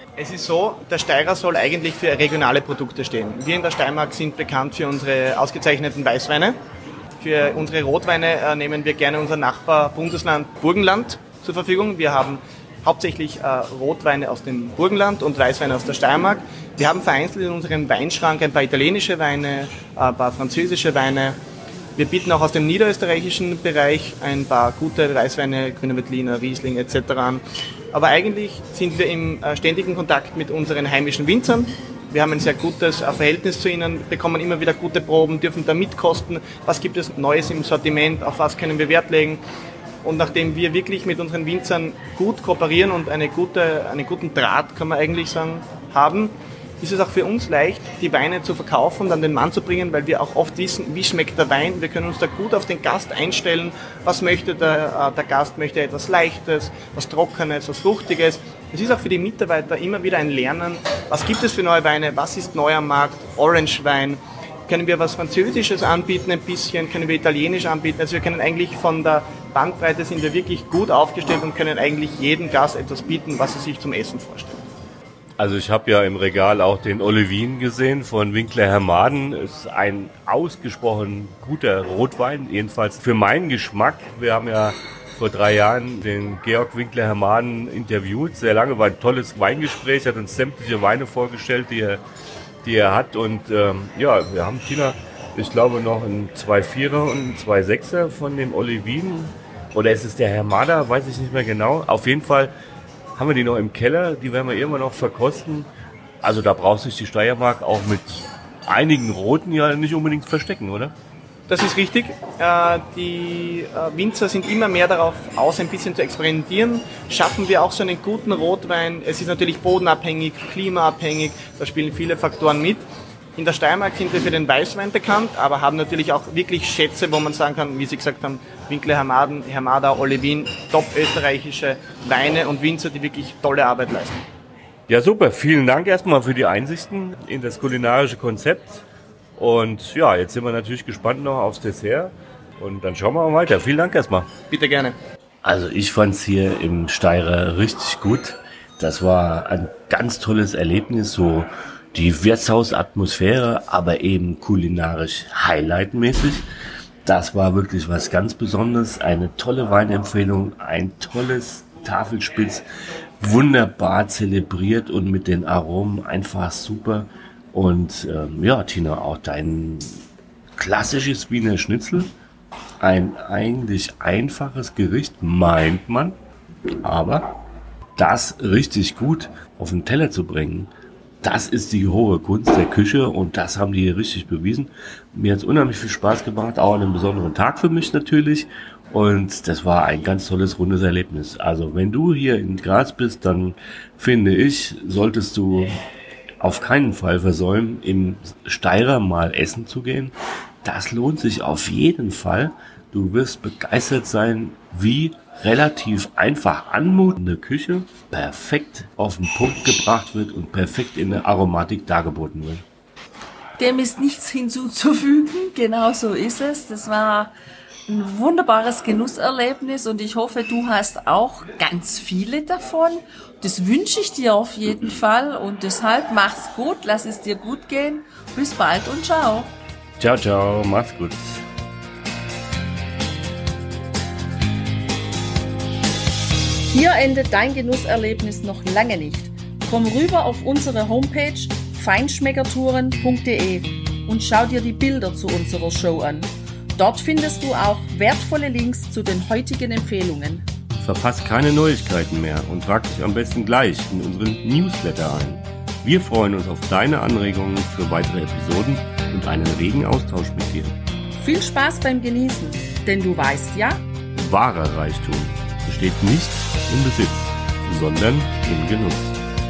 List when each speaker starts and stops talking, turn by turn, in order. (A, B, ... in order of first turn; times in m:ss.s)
0:00.2-0:06.6 A
0:07.2-0:21.4 A
0:22.0-0:27.4 A
0:27.9-0:39.4 A
0:40.0-1:14.6 A
1:15.4-1:32.0 B
1:32.6-1:42.5 B
1:43.2-1:45.7 B
1:46.2-1:50.9 B
1:51.5-2:02.8 A
2:03.4-2:14.2 A
2:14.9-2:18.8 B
2:19.4-2:24.3 B
2:24.5-2:25.0 A
2:25.4-2:36.4 B
2:37.0-2:42.6 B
2:43.2-2:50.0 B
2:50.6-2:52.1 B
2:52.8-2:56.2 B
2:56.8-2:57.3 B
2:58.0-3:00.7 B
3:01.2-3:15.7 B
3:16.4-3:32.6 B
3:33.6-3:37.3 C
3:37.9-3:49.5 C
3:50.0-3:51.5 B
3:56.6-4:10.4 C
4:10.8-4:20.8 B
4:21.2-4:23.8 C
4:24.1-4:29.2 B